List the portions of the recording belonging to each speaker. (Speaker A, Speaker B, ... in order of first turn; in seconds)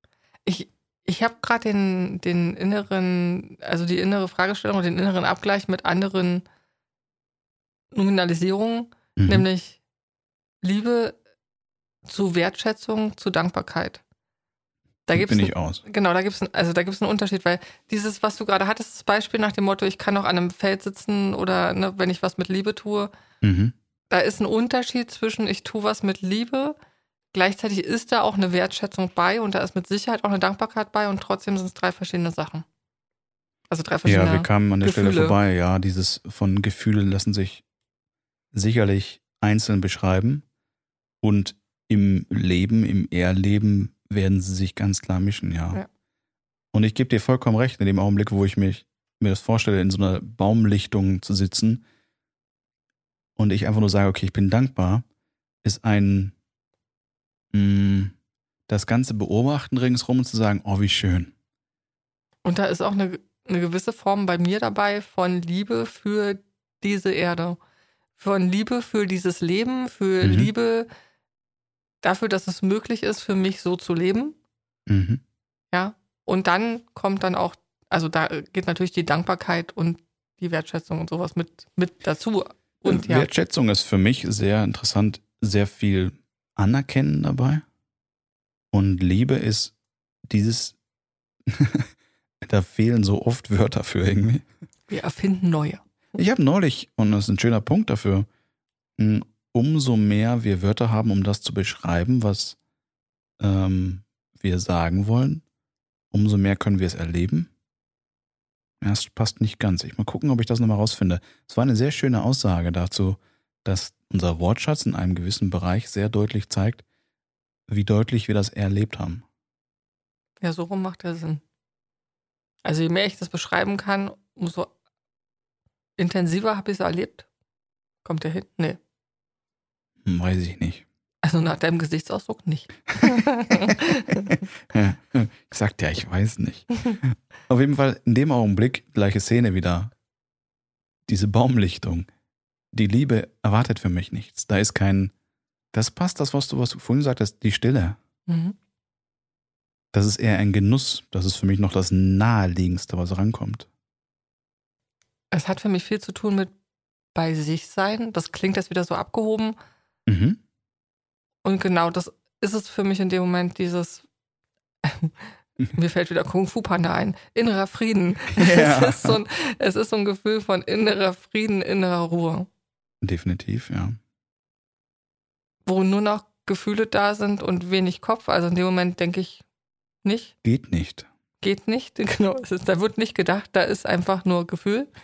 Speaker A: 0.4-6.4, 7.9-9.8, 10.6-11.2, 12.1-14.0, 15.1-23.1, 24.1-26.8, 27.3-32.6, 33.7-35.4, 62.4-67.6, 68.2-70.9, 72.0-74.3, 75.7-83.3, 94.9-95.8, 120.4-121.4, 122.6-124.7, 126.0-127.2, 128.0-128.8, 131.2-134.3, 148.3-148.5, 155.3-156.5, 157.1-159.6, 161.4-164.0, 164.8-165.2, 165.7-172.5, 175.7-179.4, 180.0-180.3, 181.4-184.9
Speaker B: 9.2-9.5, 15.1-15.8, 23.4-23.7, 34.0-37.6, 38.5-40.4, 41.2-45.8, 46.7-51.8, 53.4-55.0, 55.6-56.3, 57.5-58.1, 58.7-61.3, 70.2-70.5, 74.9-75.2, 82.8-87.6, 88.7-89.7, 90.3-90.7, 91.5-91.9, 92.4-94.5, 96.2-98.3, 99.0-102.6, 103.4-105.4, 106.1-107.5, 108.8-116.8, 117.7-119.2, 130.0-130.8, 134.7-139.9, 141.1-142.1, 142.7-145.1, 145.7-148.0, 149.9-153.7, 160.1-160.4, 168.3-169.2, 173.0-174.0, 180.4-181.1